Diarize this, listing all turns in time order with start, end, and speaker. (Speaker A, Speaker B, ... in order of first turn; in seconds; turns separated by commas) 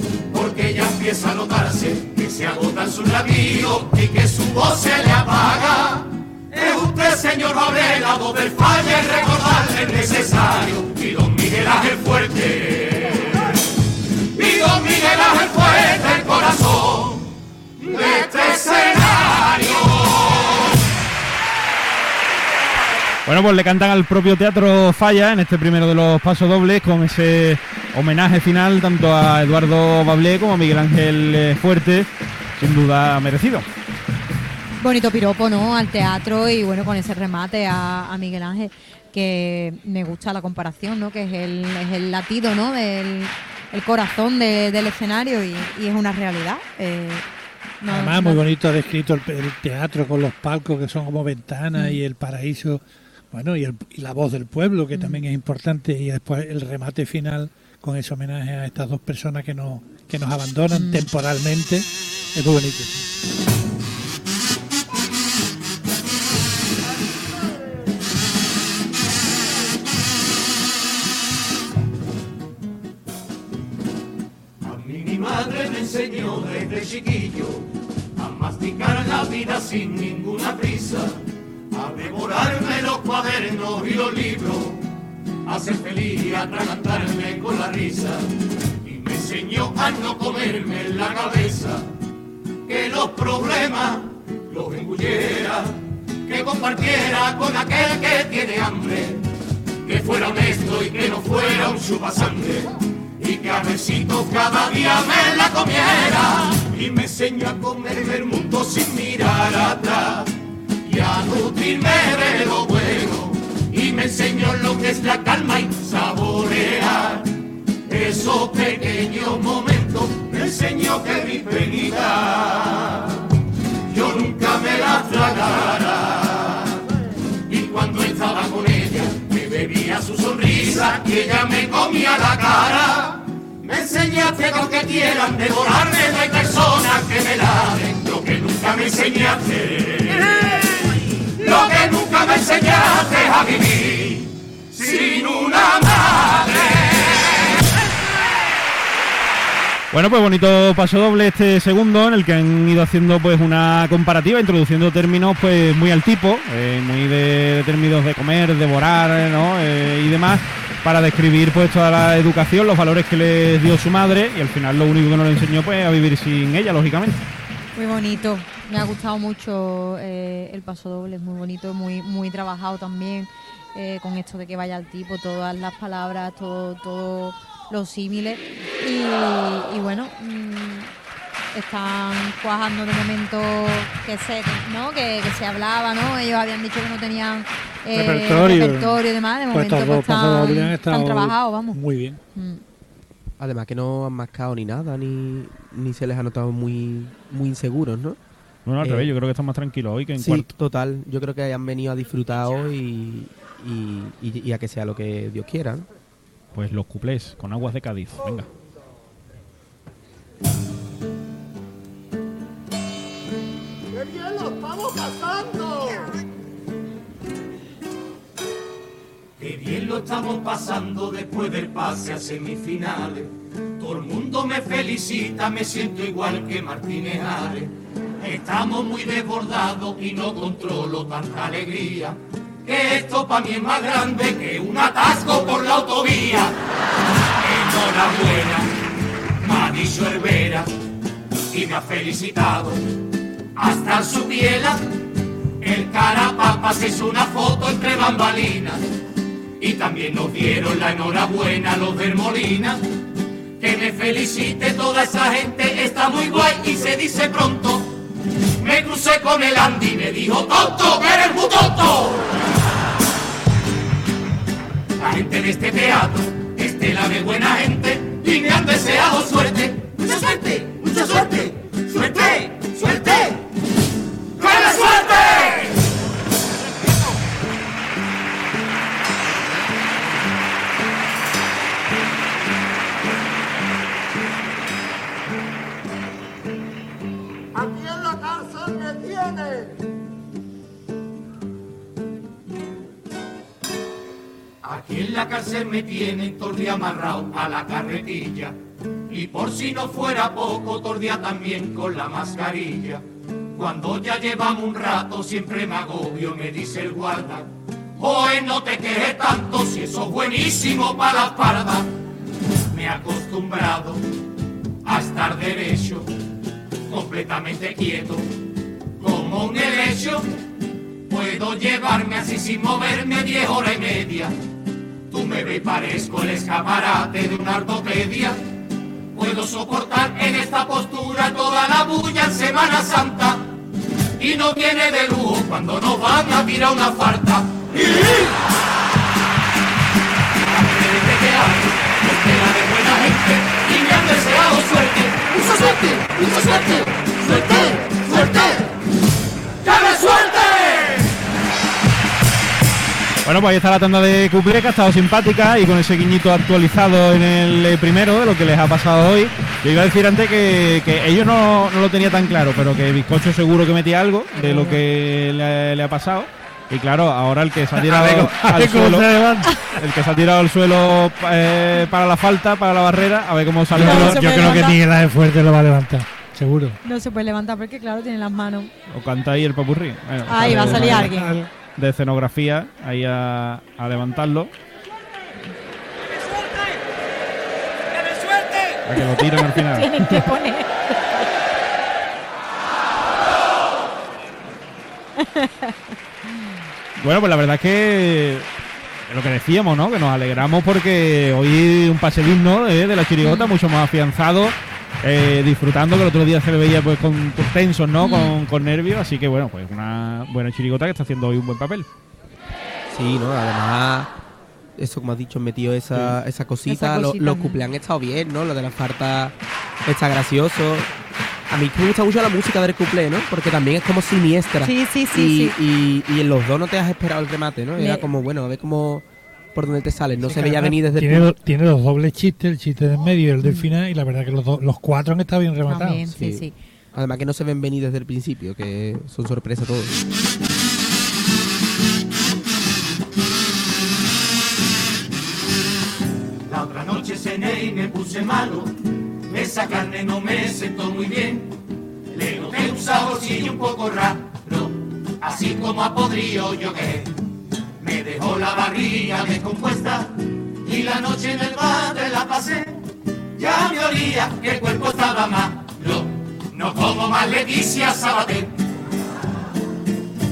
Speaker A: 0.3-13.6, Speaker A: 14.3-20.7, Speaker B: 23.3-33.7, Speaker C: 34.8-47.2, Speaker C: 47.8-48.4, Speaker D: 47.9-52.8, Speaker D: 53.3-63.0, Speaker C: 55.0-55.2, Speaker C: 60.7-61.1, Speaker A: 74.6-81.2, Speaker A: 81.7-84.8, Speaker A: 85.5-91.9, Speaker A: 92.7-99.2, Speaker A: 99.8-110.3, Speaker A: 110.8-123.3, Speaker A: 123.9-126.8, Speaker A: 127.5-147.5, Speaker B: 149.9-167.2, Speaker C: 167.8-180.9, Speaker C: 181.5-191.8, Speaker D: 187.9-189.0, Speaker D: 189.5-192.2, Speaker C: 192.3-192.6, Speaker E: 193.4-198.2, Speaker B: 198.7-200.5, Speaker E: 198.8-199.1, Speaker E: 200.2-205.9, Speaker B: 206.6-208.5, Speaker A: 215.3-215.9, Speaker A: 219.4-236.6, Speaker A: 237.4-238.7, Speaker A: 239.4-240.7, Speaker A: 241.5-242.8, Speaker A: 243.6-245.0, Speaker A: 245.6-248.8, Speaker A: 249.6-252.8, Speaker A: 253.6-258.0, Speaker A: 258.6-262.3, Speaker A: 265.0-273.4, Speaker A: 274.4-275.8, Speaker A: 287.9-289.5, Speaker A: 294.6-298.6, Speaker A: 299.1-311.9, Speaker A: 312.7-314.0, Speaker A: 314.8-316.1, Speaker A: 316.9-318.3, Speaker A: 319.0-320.3, Speaker A: 321.1-324.3, Speaker A: 325.1-328.4, Speaker A: 329.1-333.5, Speaker A: 334.2-338.3, Speaker A: 340.5-348.7, Speaker A: 349.6-351.1, Speaker B: 353.2-369.1, Speaker C: 364.4-364.8, Speaker D: 367.8-369.6, Speaker B: 369.6-374.6, Speaker D: 373.7-376.8, Speaker C: 373.8-374.8, Speaker C: 376.8-378.7, Speaker B: 378.9-381.2, Speaker C: 380.3-381.5, Speaker D: 380.4-381.4, Speaker B: 381.8-384.5, Speaker C: 388.2-391.3, Speaker B: 388.9-390.3, Speaker C: 395.2-395.9, Speaker B: 397.0-398.5, Speaker B: 399.1-411.9, Speaker C: 403.2-403.5, Speaker C: 408.0-408.3, Speaker E: 412.9-414.1, Speaker E: 414.8-419.3, Speaker C: 416.7-417.7, Speaker E: 419.9-420.9, Speaker E: 421.5-431.3, Speaker C: 424.6-425.6, Speaker C: 427.8-428.1, Speaker D: 430.3-436.0, Speaker C: 433.4-433.7, Speaker C: 435.7-436.5, Speaker E: 436.1-440.0, Speaker A: 446.5-448.8, Speaker A: 449.3-451.6, Speaker A: 452.1-457.1, Speaker A: 457.8-462.8, Speaker A: 463.4-468.5